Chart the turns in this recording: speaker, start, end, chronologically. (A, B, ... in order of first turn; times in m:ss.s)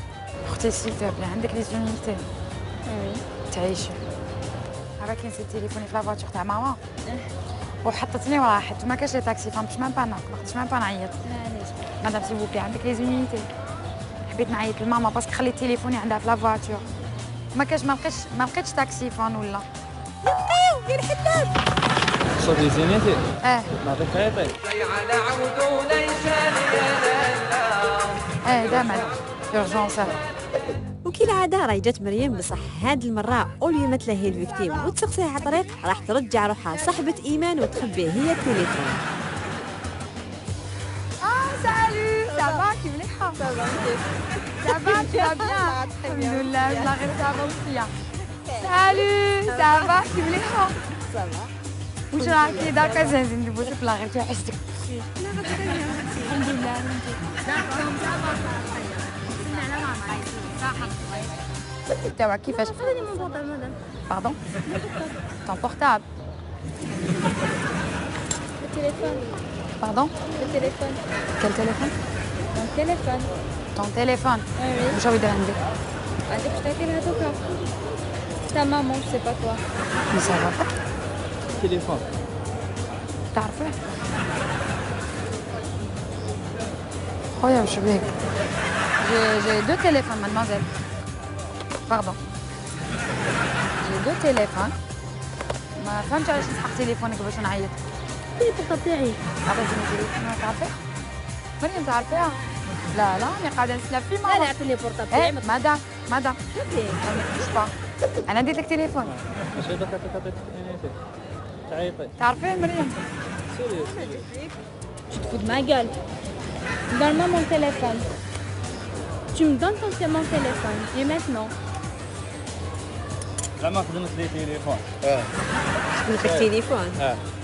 0:00.5-0:02.2 A
0:02.8-0:03.2 B
0:03.5-0:04.0 A
0:05.0-0:06.8 A
0:07.8-0:11.2 A
0:11.2-0:11.9 B
0:12.0-0:13.5 A
0:14.3-0:16.8 A
0:17.5-0:19.6 A
0:20.2-0:21.5 C
0:22.4-0:23.2 D
0:23.4-0:23.7 A
0:23.8-0:24.6 D
0:28.4-0:30.1 A
0:31.0-0:39.0 C
0:41.2-0:43.4 A
0:43.4-0:44.1 B
0:44.6-0:47.9 A
0:44.7-0:46.8 B
0:48.6-0:50.7 A
0:52.1-0:54.6 A
0:55.2-0:56.0 C
0:56.2-0:57.3 A
0:57.4-1:01.3 B
1:02.1-1:02.8 A
1:02.7-1:03.7 B
1:04.1-1:04.4 A
1:04.7-1:05.1 B
1:05.4-1:06.0 A
1:08.6-1:09.3 B
1:09.8-1:10.2 A
1:10.3-1:11.0 B
1:11.4-1:11.9 A
1:12.5-1:13.3 B
1:13.8-1:15.6 A
1:14.6-1:15.0 B
1:16.3-1:17.4 B
1:18.5-1:19.6 B
1:20.1-1:20.7 A
1:21.6-1:22.0 D
1:23.3-1:23.8 A
1:27.4-1:28.1 A
1:29.0-1:30.7 A
1:31.9-1:32.2 A
1:33.8-1:34.7 A
1:35.8-1:37.8 A
1:38.4-1:39.2 B
1:39.4-1:40.8 A
1:41.6-1:42.4 A
1:42.9-1:44.5 A
1:44.2-1:45.6 B
1:45.1-1:46.4 A
1:46.5-1:47.0 B
1:47.0-1:47.7 A
1:48.3-1:49.1 A
1:49.1-1:51.0 D
1:51.7-1:52.1 D
1:52.2-1:53.0 A
1:53.5-1:54.3 D
1:53.8-1:54.5 C
1:55.1-1:56.0 B
1:56.9-1:58.1 B
1:59.3-2:01.5 B
2:03.6-2:04.8 D
2:05.9-2:07.0 C
2:06.1-2:07.2 D